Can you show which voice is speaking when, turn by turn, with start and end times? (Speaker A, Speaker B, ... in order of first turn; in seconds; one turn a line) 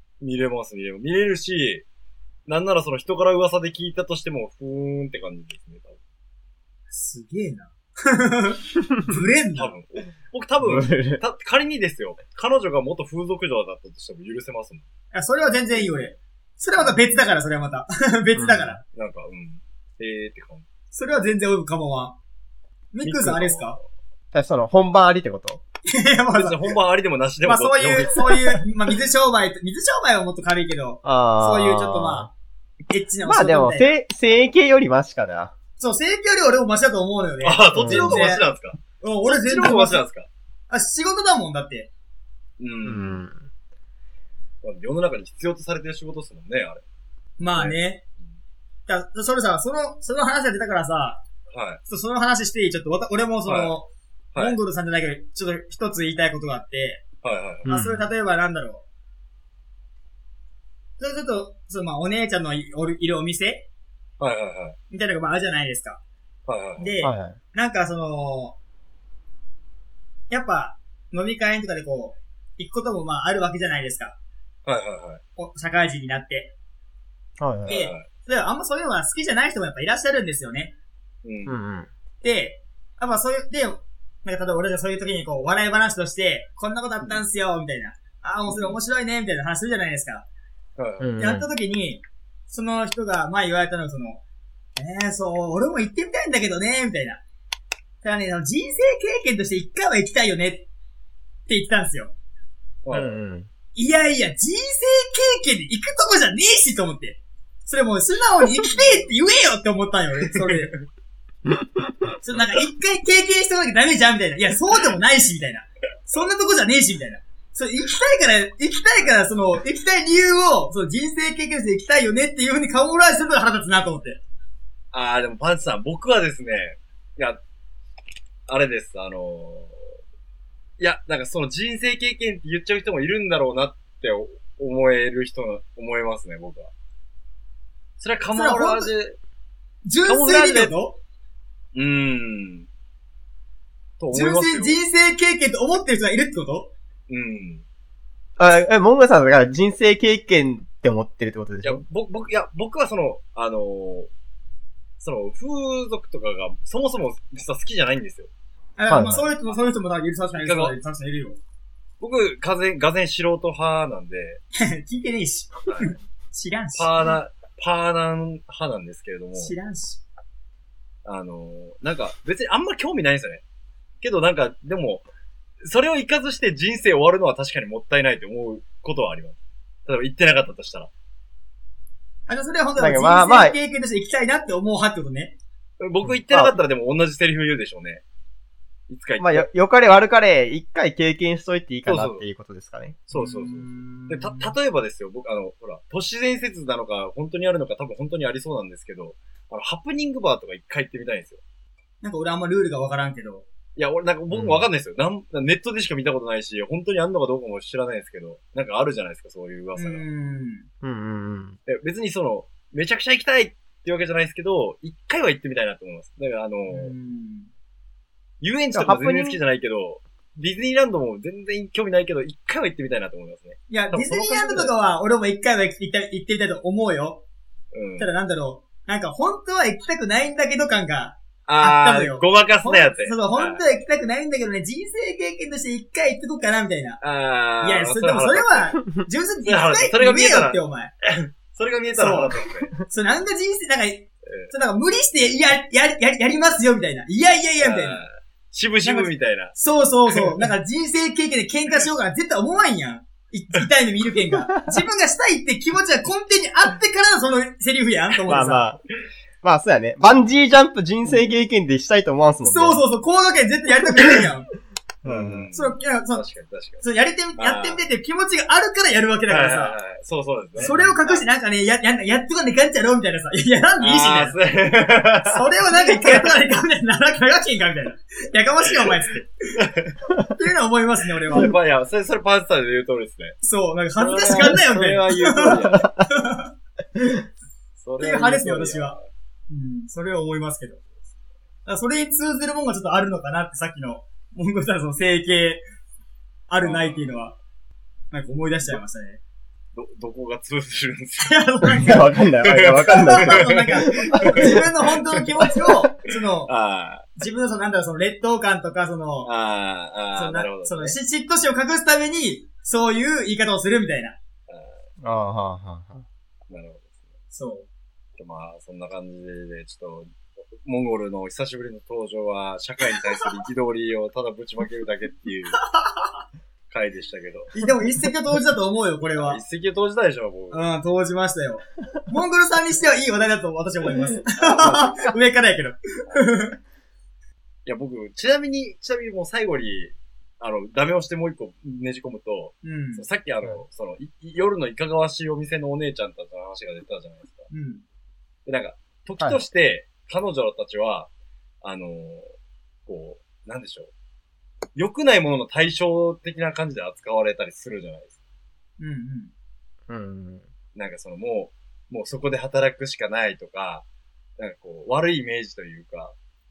Speaker A: 0.2-1.9
Speaker A: 2.5-6.0
Speaker B: 6.9-9.7
Speaker A: 9.6-14.8
Speaker C: 10.6-11.2
Speaker B: 15.1-18.8
Speaker C: 18.4-18.8
Speaker A: 18.9-20.6
Speaker B: 20.9-22.2
Speaker B: 22.9-23.8
Speaker A: 23.0-23.8
Speaker C: 24.3-25.6
Speaker B: 25.9-26.7
Speaker A: 26.3-28.6
Speaker B: 27.4-32.3
Speaker C: 31.0-32.3
Speaker B: 32.9-33.9
Speaker C: 33.2-35.5
Speaker B: 35.8-38.4
Speaker A: 37.4-40.3
Speaker C: 37.8-38.2
Speaker B: 39.0-40.0
Speaker B: 40.7-41.9
Speaker A: 42.6-43.2
Speaker C: 42.8-43.5
Speaker A: 44.6-46.8
Speaker B: 47.4-48.0
Speaker A: 47.6-48.4
Speaker B: 48.9-51.2
Speaker A: 51.5-51.8
Speaker B: 51.9-57.0
Speaker A: 53.5-53.8
Speaker A: 57.2-57.8
Speaker C: 57.7-58.1
Speaker B: 57.7-58.9
Speaker B: 61.0-63.7
Speaker A: 64.2-64.8
Speaker B: 64.9-66.0
Speaker A: 66.5-66.9
Speaker B: 66.8-68.6
Speaker C: 67.0-67.4
Speaker B: 70.3-74.2
Speaker A: 74.7-75.2
Speaker B: 75.4-76.5
Speaker C: 77.4-77.8
Speaker A: 77.7-78.1
Speaker B: 77.7-80.7
Speaker A: 81.2-81.6
Speaker C: 81.5-81.9
Speaker B: 82.2-90.3
Speaker A: 88.5-88.8
Speaker A: 90.8-91.2
Speaker C: 91.0-91.5
Speaker B: 91.2-94.2
Speaker B: 94.8-97.2
Speaker B: 98.0-100.7
Speaker B: 101.5-102.2
Speaker A: 102.8-103.2
Speaker C: 102.9-103.5
Speaker B: 103.8-110.8
Speaker A: 108.7-109.1
Speaker A: 110.4-110.7
Speaker C: 111.5-111.9
Speaker B: 112.2-124.2
Speaker A: 124.9-127.4
Speaker A: 128.5-129.8
Speaker A: 130.8-136.7
Speaker A: 138.0-139.2
Speaker B: 138.3-138.9
Speaker B: 139.8-141.0
Speaker A: 140.1-140.8
Speaker A: 141.8-142.7
Speaker A: 144.0-144.8
Speaker B: 144.1-146.7
Speaker A: 147.1-147.6
Speaker C: 148.4-151.8
Speaker A: 151.6-154.1
Speaker A: 155.0-158.3
Speaker B: 158.8-161.4
Speaker C: 158.9-159.3
Speaker A: 160.4-160.8
Speaker A: 162.0-164.4
Speaker B: 164.6-166.9
Speaker A: 165.7-165.9
Speaker A: 166.8-169.5
Speaker B: 169.3-170.0
Speaker A: 171.1-173.4
Speaker A: 174.0-175.1
Speaker A: 175.6-180.9
Speaker B: 182.3-185.4
Speaker C: 182.8-183.6
Speaker A: 185.8-188.0
Speaker C: 186.1-186.6
Speaker A: 188.9-189.5
Speaker C: 189.2-193.0
Speaker A: 191.9-192.2
Speaker A: 193.1-201.4
Speaker B: 193.1-194.5
Speaker B: 202.0-203.5
Speaker A: 203.8-210.0
Speaker C: 204.3-204.7
Speaker B: 209.8-210.7
Speaker C: 210.8-211.6
Speaker A: 211.7-216.9
Speaker B: 216.7-217.5
Speaker A: 218.4-224.7
Speaker C: 218.7-219.4
Speaker B: 223.7-227.2
Speaker A: 227.7-228.1
Speaker B: 228.0-237.0
Speaker A: 231.5-233.6
Speaker A: 237.0-238.8
Speaker B: 237.6-240.9
Speaker A: 239.4-242.7
Speaker B: 241.9-248.0
Speaker A: 244.3-244.5
Speaker A: 247.6-249.6
Speaker B: 248.8-258.7
Speaker A: 250.1-250.5
Speaker C: 258.3-258.8
Speaker C: 259.4-262.8
Speaker B: 262.4-264.5
Speaker C: 265.0-265.5
Speaker A: 265.1-266.9
Speaker B: 265.5-266.2
Speaker B: 266.8-269.8
Speaker A: 267.4-267.8
Speaker A: 269.3-271.2
Speaker B: 270.6-274.4
Speaker C: 270.6-270.9
Speaker A: 273.8-276.3
Speaker B: 275.3-279.3
Speaker A: 279.6-279.9
Speaker B: 280.4-281.5
Speaker A: 281.3-283.4
Speaker B: 283.4-286.5
Speaker A: 284.0-285.9
Speaker C: 285.7-286.0
Speaker C: 287.0-287.3
Speaker A: 287.8-289.1
Speaker B: 288.0-289.0
Speaker B: 289.5-290.8
Speaker B: 291.7-295.6
Speaker B: 296.5-297.4
Speaker A: 296.6-297.1
Speaker B: 298.1-299.2
Speaker A: 299.8-301.4
Speaker B: 301.2-302.1
Speaker C: 301.7-304.6
Speaker A: 302.4-304.6
Speaker B: 302.8-306.5
Speaker A: 306.5-307.1
Speaker B: 307.2-309.3
Speaker A: 309.2-311.0
Speaker B: 310.1-314.2
Speaker A: 314.5-314.8
Speaker C: 315.0-316.1
Speaker A: 316.5-316.9
Speaker B: 317.3-317.7
Speaker A: 318.2-325.6
Speaker B: 325.6-326.2
Speaker A: 326.7-327.6
Speaker B: 327.6-329.4
Speaker A: 329.2-330.6
Speaker B: 330.5-336.6
Speaker A: 334.4-334.9
Speaker A: 337.7-347.5
Speaker B: 342.6-343.1
Speaker B: 347.5-347.8
Speaker A: 348.5-351.1
Speaker A: 351.6-352.3
Speaker A: 352.9-353.9
Speaker A: 354.8-358.2
Speaker B: 358.8-359.3
Speaker C: 359.9-360.4
Speaker A: 360.8-363.9
Speaker A: 364.4-366.1